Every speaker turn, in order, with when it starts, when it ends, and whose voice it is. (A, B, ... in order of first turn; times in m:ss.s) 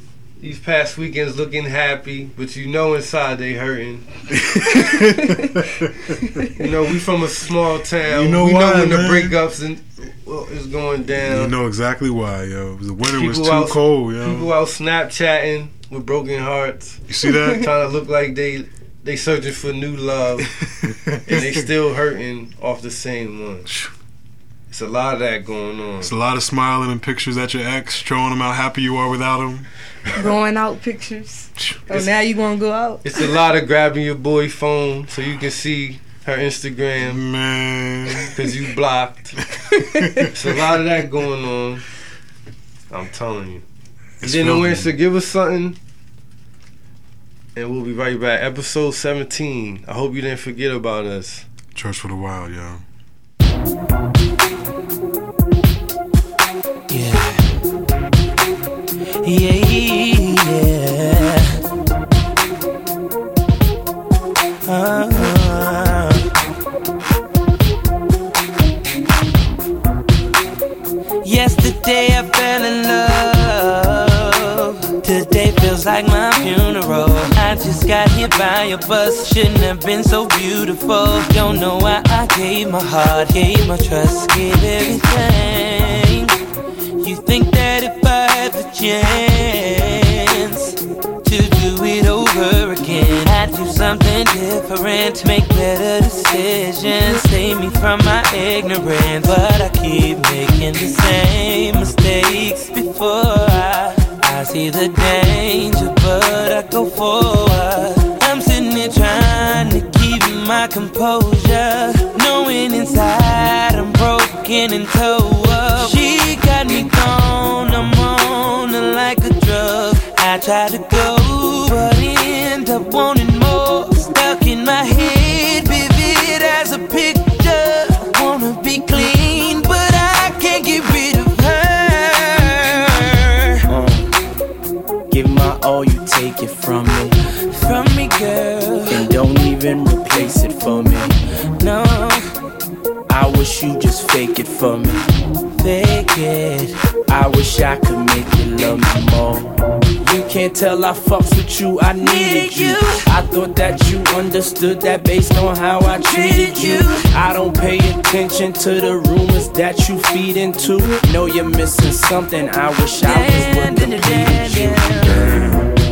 0:00.4-0:04.1 A
0:04.3-0:06.5 B
0:06.5-0:11.5 A
0:08.0-0:09.4 B
0:11.2-0:14.5 B
0:13.1-0:20.5 A
0:17.1-0:17.7 B
0:20.6-0:21.7 B
0:21.2-0:23.7 A
0:23.6-0:23.9 B
0:24.7-0:26.1 A
0:26.0-0:29.7 B
0:30.2-0:33.1 C
0:31.6-0:31.9 B
0:33.0-0:37.2 A
0:37.0-0:38.4 B
0:38.3-0:39.4 A
0:39.5-0:40.3 B
0:40.3-0:41.8 A
0:42.9-0:43.6 A
0:44.2-0:44.9 B
0:44.2-0:45.8 A
0:47.6-0:51.4 A
0:51.7-0:52.8 B
0:56.9-0:57.5 D
0:59.2-1:01.6 D
1:04.6-1:06.3 D
1:11.2-1:26.3 D
1:27.0-2:13.6 D
2:13.7-2:14.1 E
2:15.1-2:17.2 E
2:17.5-2:19.1 D
2:18.9-2:21.2 E
2:21.6-2:22.2 D
2:23.1-2:25.1 E
2:25.6-2:26.7 D
2:27.1-2:45.4 E
2:32.0-2:33.0 D
2:36.0-2:37.1 D
2:43.0-2:45.5 D